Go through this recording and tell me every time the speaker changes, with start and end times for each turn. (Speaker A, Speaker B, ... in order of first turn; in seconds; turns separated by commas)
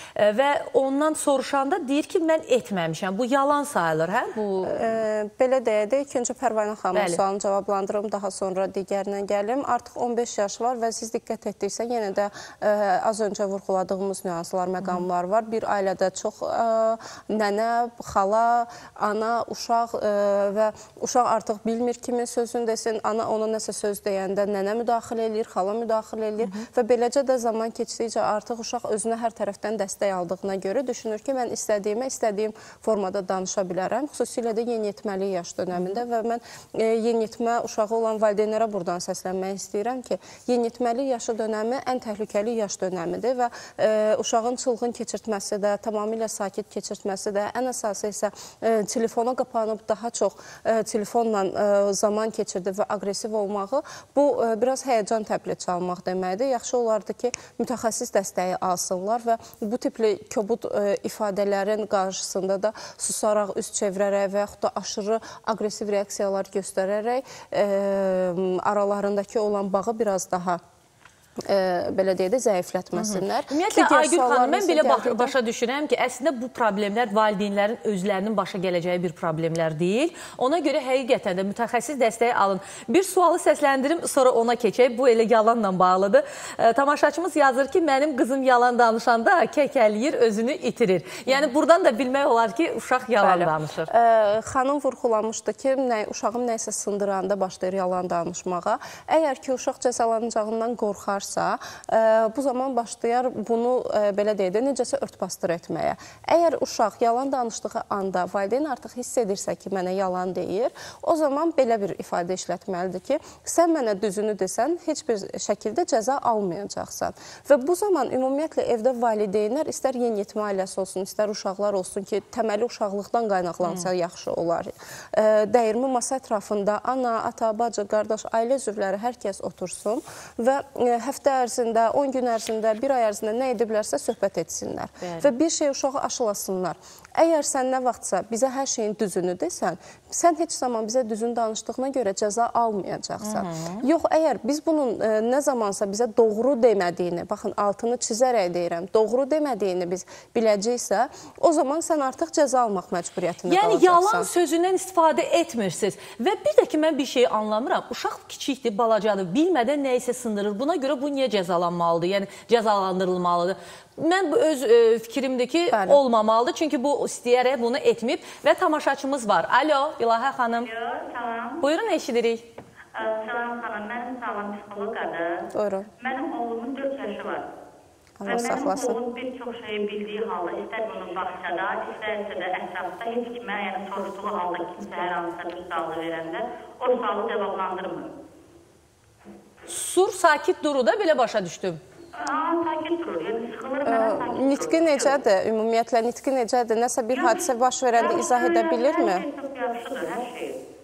Speaker A: 0.1-4.9, Speaker B: 4.6-70.6, Speaker A: 6.9-7.2, Speaker B: 71.4-75.3, Speaker A: 73.0-93.9, Speaker B: 93.2-154.3, Speaker A: 135.0-135.3, Speaker A: 143.2-143.8, Speaker A: 153.5-170.7, Speaker B: 165.7-166.0, Speaker C: 170.6-171.6, Speaker A: 171.6-172.4, Speaker C: 172.9-175.5, Speaker B: 175.5-175.9, Speaker C: 176.0-177.4, Speaker B: 178.2-179.0, Speaker C: 178.2-188.1, Speaker A: 189.7-191.8, Speaker C: 192.2-195.2, Speaker B: 193.8-199.2, Speaker C: 197.1-200.6